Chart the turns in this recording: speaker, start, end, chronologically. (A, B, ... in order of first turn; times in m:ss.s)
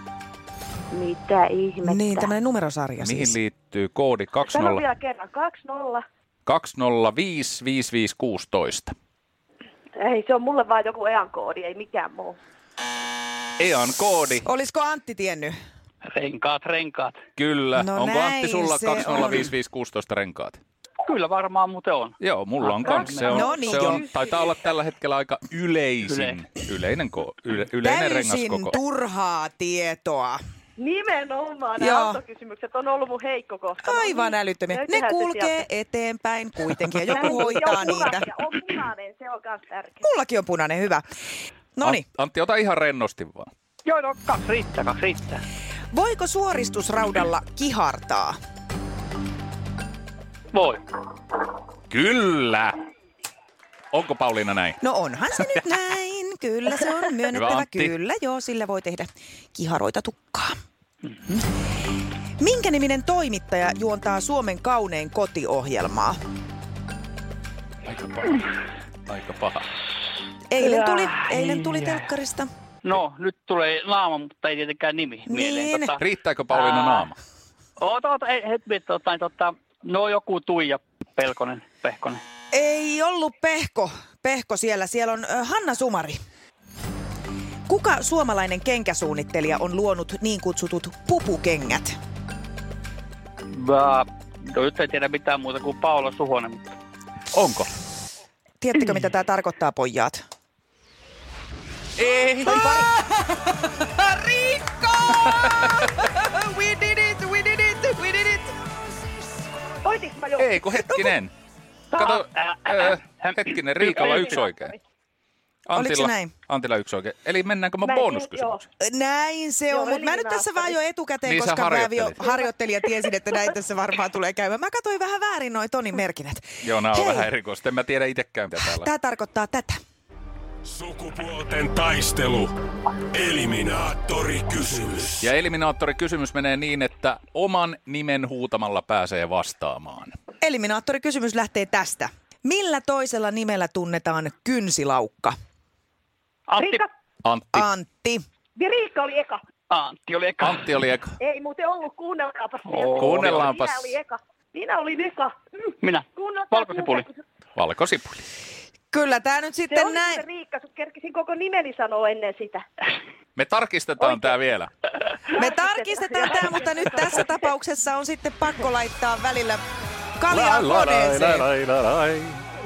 0:00.9-0:02.3 A
0:01.8-0:03.4 B
0:03.0-0:04.8 C
0:04.5-0:06.0 A
0:06.4-0:08.9 C
0:10.0-0:12.4 A
0:13.6-0:14.5 C
0:14.4-0:15.5 B
0:16.0-0:17.2 D
0:17.4-0:20.6 C
0:17.8-0:19.5 B
0:21.0-0:23.4 D
0:22.2-0:28.7 C
0:23.2-0:24.0 A
0:23.3-0:24.0 B
0:26.1-0:26.4 D
0:27.8-0:30.4 B
0:30.8-0:35.6 A
0:31.8-0:32.2 B
0:33.8-0:38.3 B
0:37.1-0:40.0 A
0:40.0-0:41.0 B
0:41.8-0:42.0 B
0:41.8-0:43.5 C
0:43.8-0:45.4 D
0:45.9-0:48.4 B
0:50.5-0:50.8 D
0:51.9-0:52.8 C
0:53.9-0:54.8 C
0:54.8-1:00.6 B
0:57.3-0:58.0 C
1:02.4-1:06.2 B
1:07.8-1:08.5 C
1:09.1-1:09.6 C
1:10.5-1:12.5 B
1:10.6-1:11.2 D
1:12.8-1:17.1 D
1:15.3-1:15.9 B
1:16.0-1:17.2 C
1:17.8-1:22.2 D
1:22.5-1:26.2 B
1:27.7-1:32.0 B
1:33.5-1:36.7 D
1:37.3-1:37.7 C
1:38.6-1:40.2 B
1:42.0-1:42.9 C
1:42.4-1:49.1 B
1:49.8-1:50.6 A
1:50.4-1:51.3 C
1:51.9-1:54.4 D
1:52.0-1:54.7 C
1:54.3-1:54.7 A
1:55.7-1:58.7 C
1:55.7-1:56.3 B
1:57.8-1:58.6 A
1:58.8-2:07.3 B
1:59.7-2:00.7 A
2:01.2-2:02.3 C
2:06.6-2:08.9 C
2:08.6-2:09.8 B
2:10.7-2:12.5 E
2:13.1-2:15.2 E
2:15.2-2:20.1 C
2:20.4-2:25.3 B
2:26.5-2:26.8 D
2:26.6-2:26.9 A
2:27.2-2:27.7 C
2:27.5-2:28.2 B
2:28.6-2:29.4 A
2:29.7-2:30.7 D
2:30.4-2:31.1 C
2:31.2-2:35.3 A
2:32.7-2:33.4 D
2:33.0-2:33.9 C
2:35.8-2:37.1 D
2:36.2-2:37.2 A
2:37.6-2:38.2 C
2:38.9-2:40.2 B
2:39.7-2:42.6 A
2:43.4-2:44.7 C
2:44.0-2:44.4 A
2:45.3-2:47.2 A
2:45.3-2:49.6 B
2:50.2-2:51.5 B
2:50.3-2:52.4 C